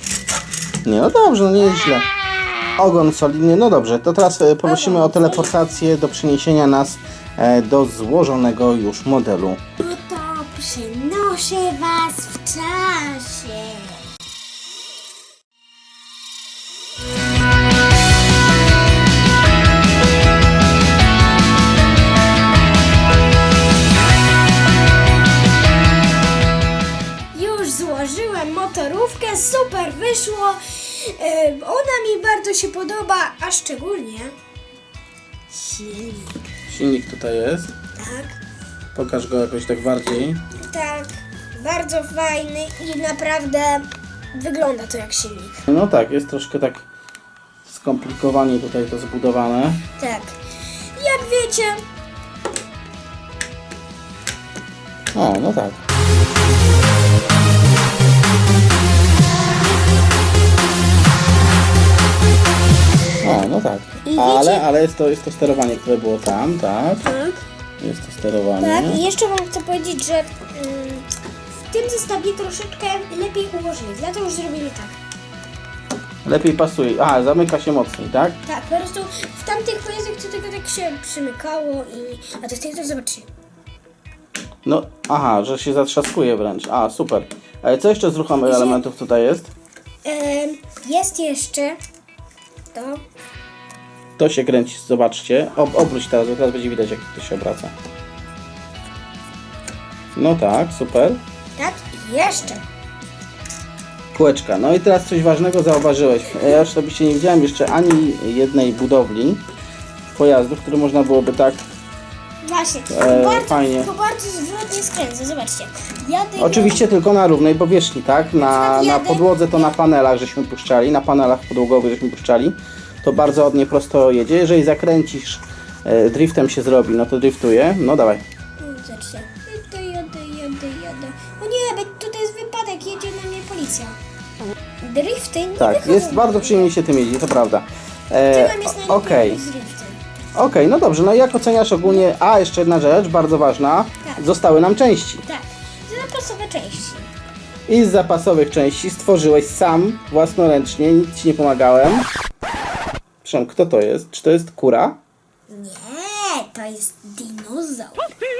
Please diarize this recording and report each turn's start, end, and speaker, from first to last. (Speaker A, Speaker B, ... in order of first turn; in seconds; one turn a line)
Speaker A: 0.8-2.1
Speaker A: 2.8-9.6
Speaker B: 4.6-5.5
Speaker B: 9.8-14.0
Speaker B: 27.3-34.3
Speaker B: 35.5-36.4
Speaker A: 36.7-37.7
Speaker B: 37.9-38.4
Speaker A: 38.9-40.4
Speaker B: 40.6-45.6
Speaker A: 45.7-46.8
Speaker A: 47.6-49.8
Speaker B: 50.0-50.4
Speaker B: 50.9-51.8
Speaker A: 55.1-55.8
Speaker A: 63.2-67.1
Speaker B: 64.0-64.7
Speaker B: 67.0-67.4
Speaker A: 67.8-69.0
Speaker B: 68.6-71.1
Speaker B: 71.6-74.9
Speaker A: 76.2-78.4
Speaker B: 78.4-83.3
Speaker A: 84.6-89.5
Speaker B: 88.4-88.8
Speaker B: 90.0-91.8
Speaker B: 92.7-93.0
Speaker A: 94.2-97.7
Speaker A: 100.1-101.2
Speaker B: 101.6-102.6
Speaker A: 104.1-109.4
Speaker A: 110.1-111.7
Speaker B: 112.4-116.8
Speaker A: 112.9-113.9
Speaker A: 116.4-128.2
Speaker B: 118.3-119.7
Speaker B: 128.6-133.9
Speaker B: 134.8-136.7
Speaker A: 135.6-139.4
Speaker B: 138.3-140.0
Speaker A: 140.3-145.2
Speaker B: 145.2-147.1
Speaker A: 147.7-152.1
Speaker A: 153.2-155.0
Speaker B: 155.5-158.1